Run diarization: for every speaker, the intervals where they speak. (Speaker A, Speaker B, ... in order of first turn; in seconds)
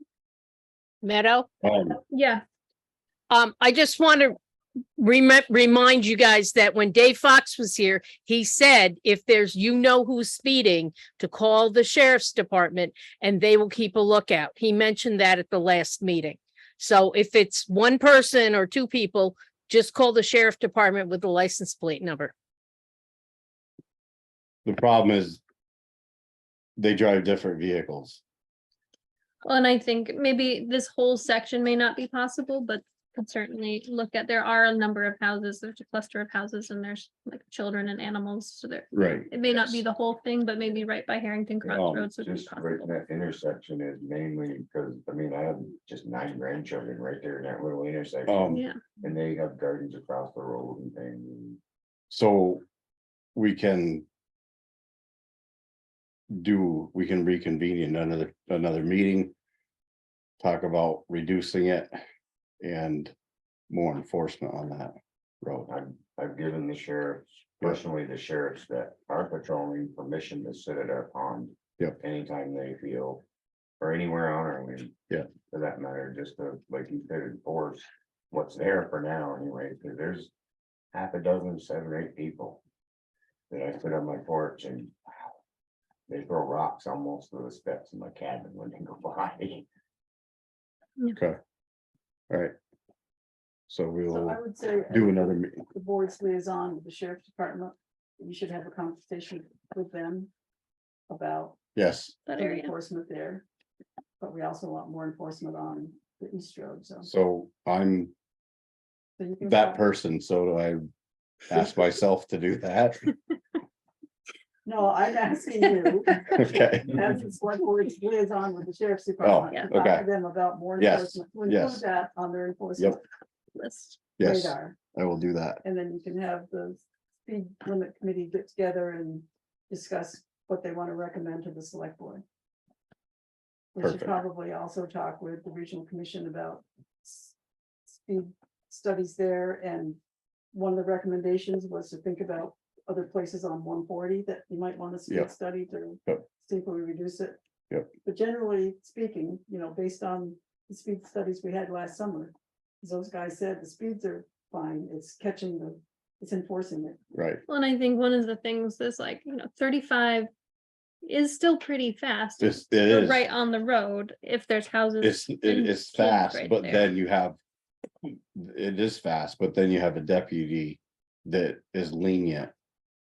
Speaker A: 1.0-1.5, 3.3-4.3, 5.0-22.3
Speaker B: 1.6-2.0, 24.6-25.4, 26.8-28.2, 38.9-39.3, 41.6-42.1, 48.2-48.6, 52.1-52.6, 53.3-54.0, 56.3-59.3, 60.4-62.0, 62.6-63.1, 63.7-65.7, 93.7-94.4, 94.9-95.6, 101.7-102.2, 107.0-108.1, 109.4-110.8, 111.5-113.0, 116.3-117.1, 119.2-120.1, 120.8-121.8, 124.2-125.6, 133.8-134.1, 157.1-157.4, 162.4-163.2, 165.0-167.4, 168.3-172.5
Speaker C: 2.1-2.4, 29.4-42.9, 48.5-49.0, 102.2-102.7, 123.5-124.0, 157.5-160.3, 161.0-166.9
Speaker D: 41.7-51.6, 65.7-73.2, 73.8-74.9, 75.5-80.3, 80.9-82.6, 83.5-84.9, 86.1-89.7
Speaker E: 94.1-100.3, 101.1-101.6, 102.3-103.4, 104.2-107.1, 109.2-109.8, 114.6-123.0, 124.2-124.8, 125.6-132.2, 133.7-137.3, 137.9-140.0, 140.5-147.4, 148.0-157.0